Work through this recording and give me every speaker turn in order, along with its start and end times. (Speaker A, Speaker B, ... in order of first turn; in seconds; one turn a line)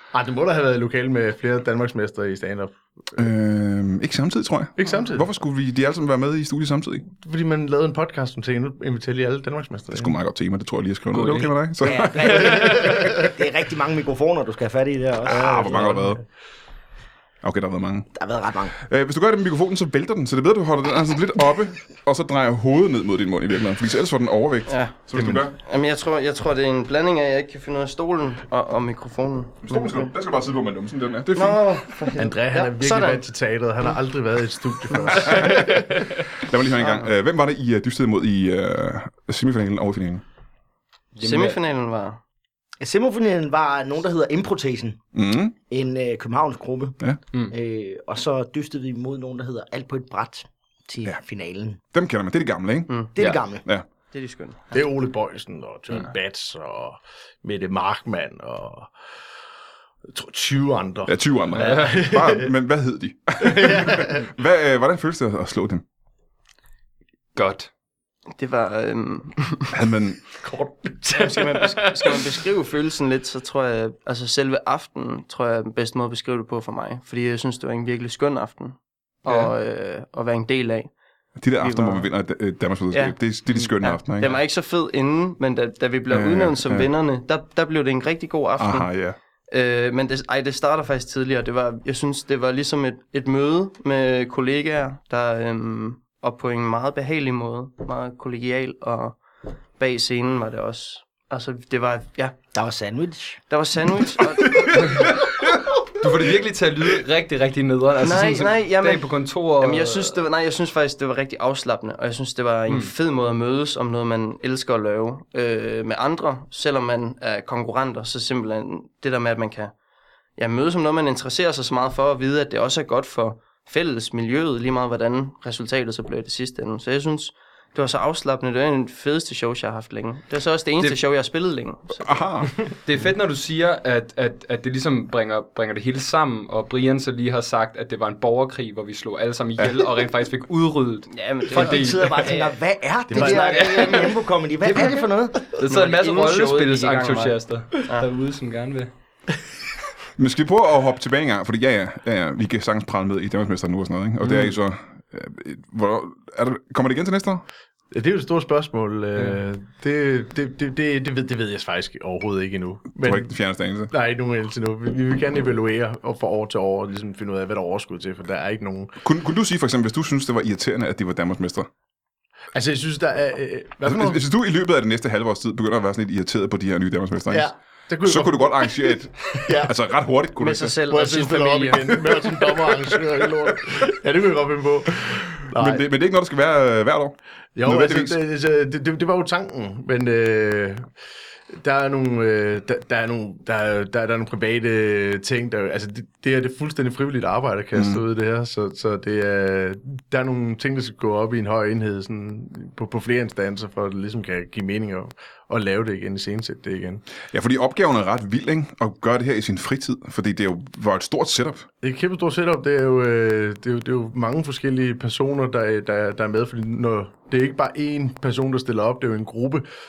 Speaker A: 0.1-3.2
Speaker B: 3.2-7.0
Speaker A: 4.8-5.3
Speaker A: 7.1-10.1
Speaker B: 9.9-12.3
Speaker C: 11.1-13.1
Speaker D: 11.8-16.0
Speaker A: 12.5-13.2
Speaker A: 15.3-16.1
Speaker B: 15.3-16.2
Speaker B: 17.4-18.1
Speaker D: 18.1-18.8
Speaker B: 18.8-25.5
Speaker E: 24.7-30.1
Speaker A: 25.1-25.4
Speaker B: 29.6-31.6
Speaker E: 31.3-33.2
Speaker A: 32.1-36.0
Speaker E: 35.1-35.4
Speaker B: 35.2-35.7
Speaker C: 35.5-36.1
Speaker B: 36.4-40.2
Speaker E: 36.8-37.1
Speaker C: 41.1-41.6
Speaker E: 41.2-42.2
Speaker D: 42.8-45.1
Speaker B: 45.1-45.5
Speaker D: 45.7-51.8
Speaker B: 51.9-53.8
Speaker D: 53.1-53.6
Speaker E: 54.1-54.6
Speaker A: 54.7-58.9
Speaker A: 60.1-62.5
Speaker B: 61.1-65.8
Speaker C: 61.6-61.9
Speaker A: 63.4-64.3
Speaker C: 67.3-67.7
Speaker E: 68.3-69.7
Speaker B: 69.7-70.3
Speaker A: 70.3-71.9
Speaker E: 71.1-80.9
Speaker C: 79.2-79.5
Speaker B: 81.4-84.4
Speaker E: 81.6-82.1
Speaker E: 82.9-88.9
Speaker B: 86.1-86.9
Speaker B: 88.6-89.2
Speaker E: 89.5-99.2
Speaker E: 99.8-102.3
Speaker D: 102.5-103.4
Speaker E: 103.5-105.1
Speaker C: 106.0-110.2
Speaker E: 108.0-119.7
Speaker E: 120.4-132.2
Speaker B: 132.0-132.6
Speaker C: 132.8-142.3
Speaker E: 141.1-142.6
Speaker D: 141.5-145.4
Speaker A: 143.1-143.7
Speaker C: 143.2-144.1
Speaker E: 143.2-144.1
Speaker C: 144.6-148.9
Speaker E: 145.6-148.1
Speaker B: 150.2-157.4
Speaker C: 154.2-154.5
Speaker A: 157.9-163.3
Speaker B: 163.0-163.9
Speaker A: 163.9-168.9
Speaker B: 169.0-171.7
Speaker A: 172.5-174.2
Speaker B: 173.8-177.5
Speaker A: 177.3-179.7
Speaker B: 178.0-180.8
Speaker E: 180.4-182.3
Speaker A: 180.9-185.8
Speaker B: 185.1-188.2
Speaker A: 187.6-190.9
Speaker A: 191.5-207.0
Speaker B: 197.7-198.0
Speaker B: 207.3-211.7
Speaker A: 211.8-219.7